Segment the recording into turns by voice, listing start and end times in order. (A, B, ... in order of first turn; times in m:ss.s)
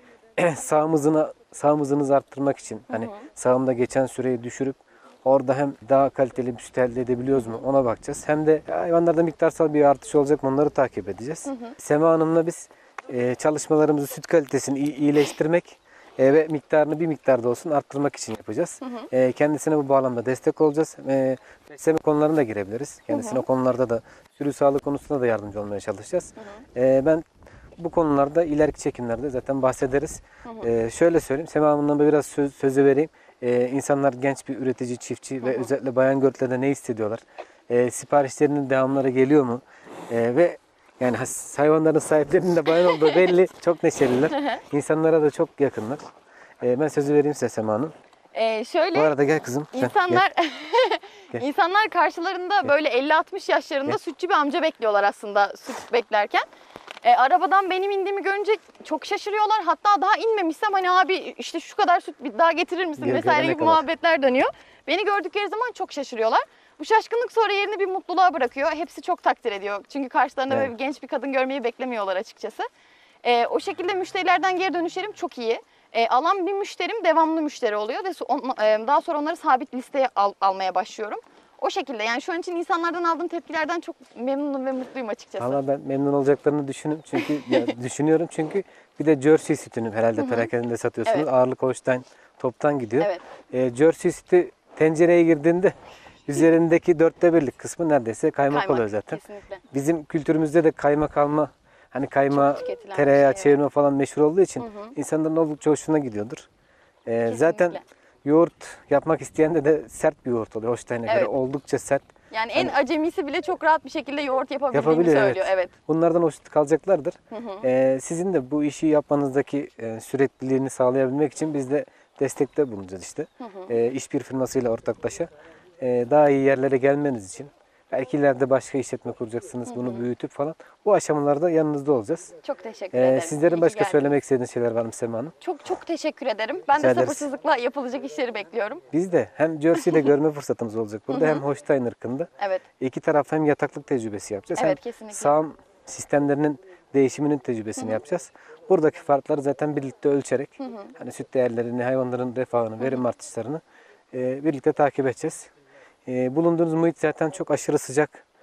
0:00.4-0:27.2 A
0:02.9-0:03.2 B
0:18.8-0:19.1 B
0:23.1-0:23.5 B
0:27.8-0:46.0 A
0:30.4-0:30.7 B
0:35.4-0:35.7 B
0:43.0-0:43.3 B
0:46.6-0:47.9 A
0:48.3-0:49.1 B
0:48.9-0:50.2 A
0:49.7-0:56.4 B
0:57.0-1:12.6 B
1:03.0-1:03.8 A
1:13.2-1:25.6 B
1:25.4-1:35.8 A
1:27.2-1:27.7 B
1:30.2-1:30.5 B
1:36.3-1:46.5 A
1:38.5-1:39.6 B
1:42.3-1:43.6 B
1:44.6-1:44.9 B
1:47.1-1:52.0 A
1:47.2-1:47.8 B
1:52.3-1:55.7 B
1:54.7-2:12.3 A
1:57.3-1:57.7 B
2:03.4-2:03.8 B
2:09.7-2:10.0 B
2:12.4-2:14.2 B
2:12.9-2:15.3 A
2:15.4-2:18.8 B
2:16.8-2:17.3 A
2:18.9-2:33.6 A
2:19.8-2:20.1 B
2:21.1-2:21.4 B
2:24.6-2:25.4 B
2:30.6-2:30.9 B
2:34.1-2:35.5 A
2:36.1-2:38.2 A